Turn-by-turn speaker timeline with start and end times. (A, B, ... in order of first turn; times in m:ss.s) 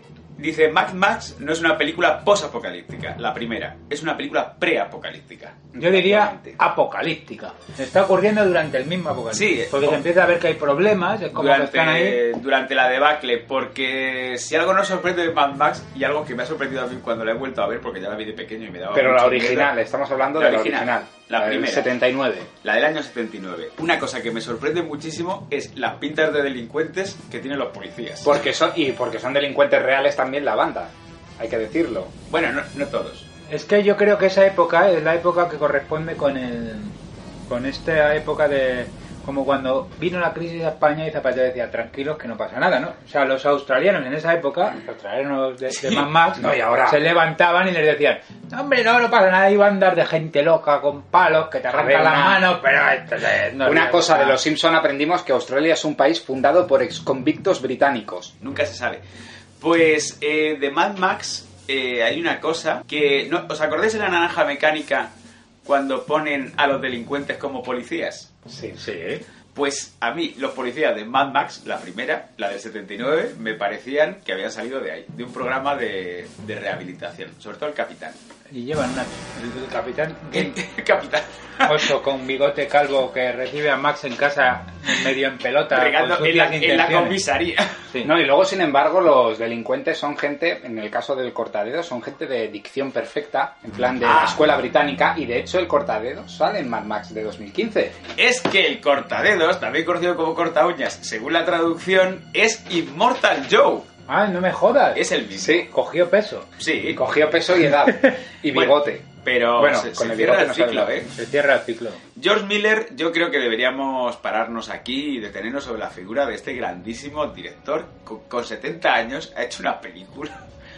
0:00.4-0:05.6 A
0:05.7-0:06.6 B
0:05.8-0:12.2 C
0:09.3-0:10.0 A
0:11.4-0:19.7 A
0:18.9-0:22.5 B
0:20.4-0:21.9 A
0:22.6-0:28.3 A
0:28.2-0:32.1 B
0:32.3-0:33.3 A
0:33.5-0:37.0 C
0:37.5-0:54.4 C
0:45.8-0:46.0 A
0:46.4-0:47.1 B
0:51.7-0:52.5 B
0:53.6-0:58.3 B
0:58.4-0:59.0 A
0:59.6-1:05.1 A
1:05.6-1:08.3 A
1:08.5-1:08.8 B
1:08.8-1:09.2 C
1:09.5-1:18.2 A
1:18.5-1:20.6 C
1:20.3-1:21.9 A
1:21.6-1:27.2 C
1:25.7-1:27.8 A
1:28.0-1:38.0 B
1:34.0-1:34.4 A
1:38.2-1:43.9 A
1:44.1-1:45.0 C
1:44.9-1:45.7 A
1:45.3-1:45.7 B
1:45.6-1:46.5 C
1:46.6-1:47.0 A
1:46.9-1:51.0 B
1:48.5-1:51.1 A
1:51.2-1:52.0 C
1:52.2-2:00.4 A